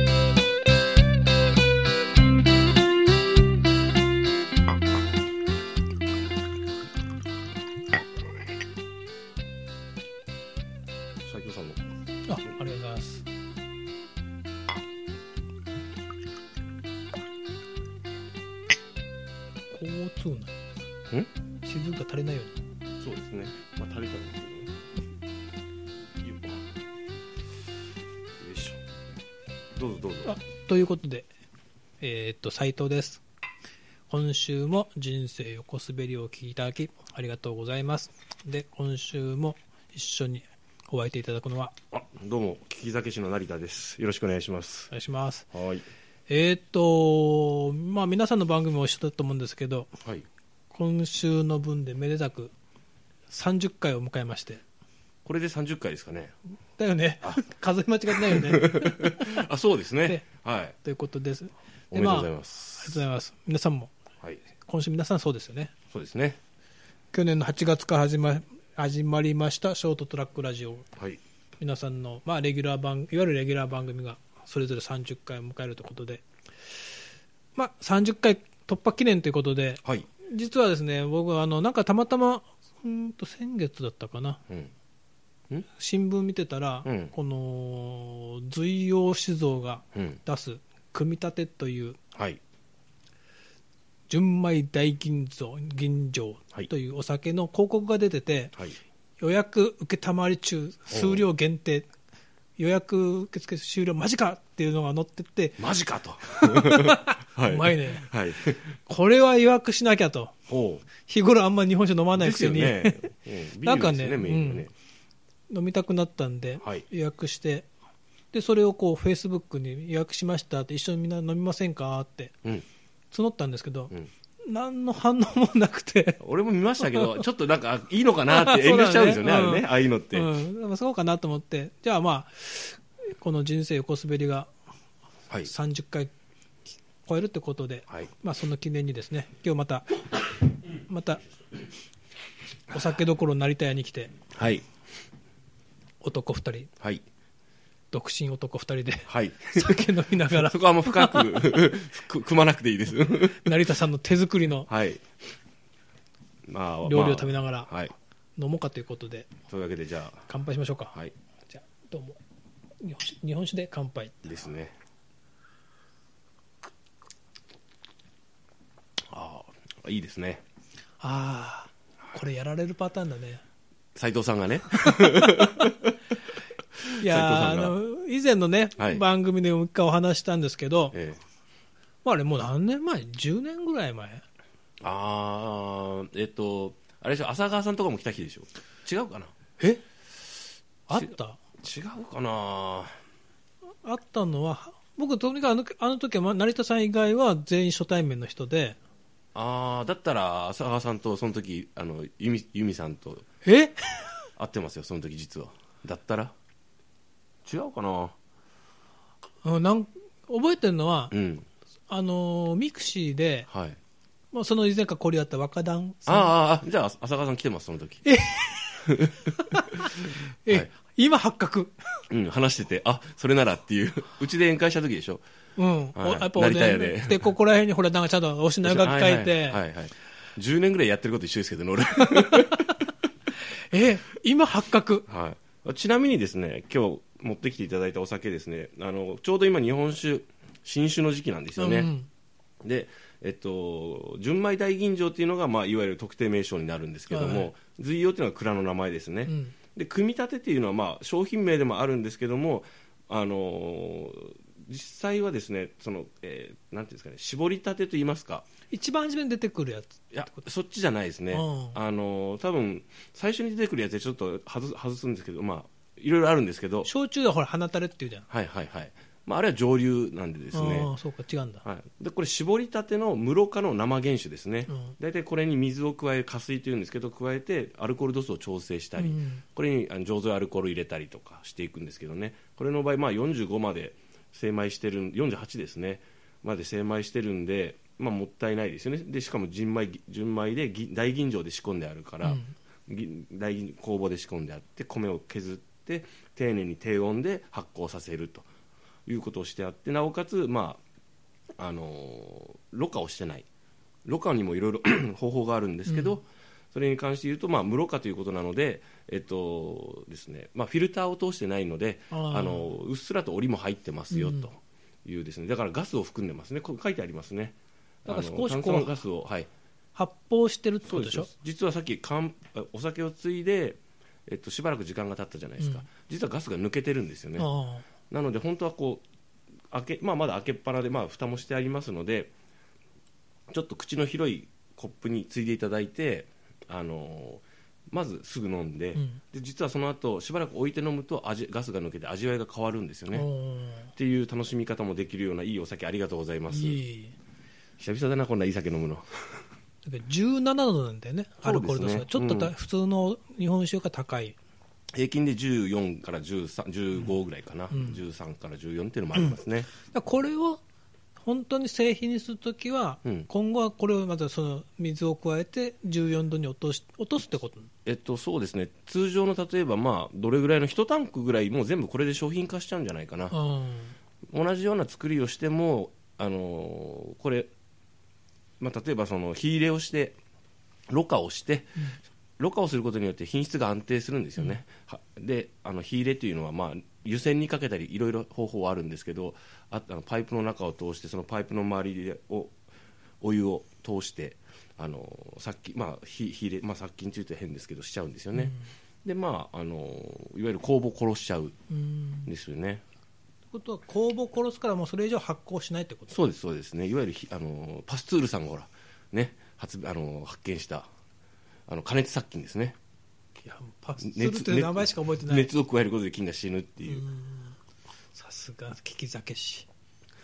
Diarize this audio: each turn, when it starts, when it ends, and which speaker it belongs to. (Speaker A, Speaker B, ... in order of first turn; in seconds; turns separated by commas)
Speaker A: 11.2-11.8, Speaker B: 12.2-13.2, Speaker B: 19.7-20.5, Speaker B: 21.6-22.6, Speaker A: 23.0-24.7, Speaker A: 26.2-26.6, Speaker A: 28.4-28.8, Speaker A: 29.8-30.4, Speaker B: 30.2-31.3, Speaker B: 32.0-33.2, Speaker B: 34.1-41.7, Speaker A: 41.9-44.9, Speaker B: 44.9-45.5, Speaker A: 45.5-45.8, Speaker B: 46.3-49.9, Speaker A: 50.0-50.2, Speaker B: 50.7-52.5, Speaker B: 53.3-54.6, Speaker A: 55.2-56.3, Speaker B: 56.8-59.2, Speaker A: 58.1-60.8, Speaker B: 60.8-63.9, Speaker A: 61.9-63.0, Speaker B: 64.6-65.7, Speaker A: 65.9-66.4, Speaker B: 67.1-70.9, Speaker B: 71.6-76.8, Speaker B: 77.5-84.4, Speaker B: 85.7-92.0, Speaker A: 86.8-87.1, Speaker A: 89.9-90.2, Speaker A: 92.1-92.4, Speaker B: 94.1-98.5, Speaker B: 99.2-101.9, Speaker A: 100.9-101.2, Speaker B: 102.6-105.6, Speaker A: 105.6-108.6, Speaker B: 106.3-108.1, Speaker B: 108.8-110.3, Speaker A: 110.5-110.9, Speaker B: 111.0-113.1, Speaker A: 112.1-114.7, Speaker B: 113.6-114.7, Speaker B: 115.5-117.7, Speaker B: 118.3-122.3, Speaker B: 123.1-123.9, Speaker B: 124.4-126.2, Speaker A: 126.2-130.3, Speaker B: 126.8-127.2, Speaker B: 128.3-134.5, Speaker B: 135.4-136.1, Speaker B: 137.0-139.9, Speaker B: 140.8-141.2, Speaker B: 142.7-144.1, Speaker A: 144.3-144.7, Speaker B: 146.0-146.7, Speaker B: 147.9-151.6, Speaker A: 149.1-153.7, Speaker B: 153.3-154.7, Speaker A: 154.7-155.0, Speaker A: 156.5-157.9, Speaker B: 156.8-157.7, Speaker B: 158.3-159.3, Speaker A: 159.5-160.3, Speaker B: 160.3-160.9, Speaker B: 161.5-162.2, Speaker B: 162.8-164.3, Speaker A: 164.2-164.7, Speaker A: 169.1-170.4, Speaker B: 171.0-173.4, Speaker A: 173.9-175.9, Speaker B: 175.0-175.5, Speaker A: 176.8-177.8, Speaker B: 177.0-180.9, Speaker A: 178.8-179.0, Speaker A: 180.9-181.2, Speaker B: 182.0-184.2, Speaker A: 184.8-189.5, Speaker B: 190.9-191.4, Speaker A: 190.9-192.9, Speaker B: 193.8-198.8, Speaker A: 199.3-203.2, Speaker B: 203.4-204.2, Speaker A: 204.4-206.3, Speaker A: 207.4-208.1, Speaker B: 209.4-211.1, Speaker A: 211.1-211.5, Speaker B: 211.9-213.5, Speaker A: 213.5-213.8, Speaker B: 214.3-216.3, Speaker A: 216.1-218.0, Speaker B: 218.0-218.8, Speaker A: 218.8-219.3, Speaker B: 219.5-222.0, Speaker A: 222.1-225.2, Speaker B: 225.6-229.6, Speaker A: 225.9-227.3, Speaker A: 228.6-232.7, Speaker B: 232.2-232.7, Speaker B: 233.7-235.1, Speaker A: 235.1-241.9, Speaker B: 241.6-242.1, Speaker A: 242.6-258.4, Speaker B: 247.1-247.5, Speaker B: 249.3-249.5, Speaker B: 258.7-260.4, Speaker A: 260.1-266.9, Speaker B: 261.3-261.8, Speaker B: 266.8-268.3, Speaker A: 268.3-270.9, Speaker B: 270.5-271.6, Speaker A: 271.6-298.5, Speaker B: 274.7-274.9, Speaker B: 279.0-279.4, Speaker B: 292.2-292.5, Speaker A: 299.1-300.8, Speaker A: 301.6-303.4, Speaker A: 304.1-319.5, Speaker B: 305.9-306.2, Speaker B: 312.1-312.7, Speaker B: 314.1-314.5, Speaker B: 318.1-318.9, Speaker B: 319.9-321.3, Speaker A: 320.9-327.5, Speaker B: 325.6-325.8, Speaker B: 327.4-327.9, Speaker A: 328.1-329.0, Speaker A: 329.7-332.3, Speaker A: 333.5-343.3, Speaker B: 338.9-339.2, Speaker B: 343.1-343.9, Speaker A: 343.9-346.8, Speaker B: 346.5-347.1, Speaker A: 347.8-349.1, Speaker B: 349.8-354.4, Speaker A: 351.4-352.5, Speaker A: 354.9-359.7, Speaker B: 357.7-358.0, Speaker B: 359.8-360.6, Speaker B: 361.2-367.7, Speaker A: 367.8-373.4, Speaker B: 373.3-373.9, Speaker A: 374.3-377.5, Speaker A: 378.6-380.1, Speaker A: 380.9-392.5, Speaker A: 393.2-401.5, Speaker B: 398.3-398.6, Speaker B: 401.7-402.3, Speaker A: 402.2-402.8, Speaker B: 403.5-406.2, Speaker A: 406.1-410.9, Speaker A: 411.7-412.8, Speaker B: 413.4-415.5, Speaker A: 414.0-417.0, Speaker B: 416.9-417.6, Speaker B: 418.1-419.7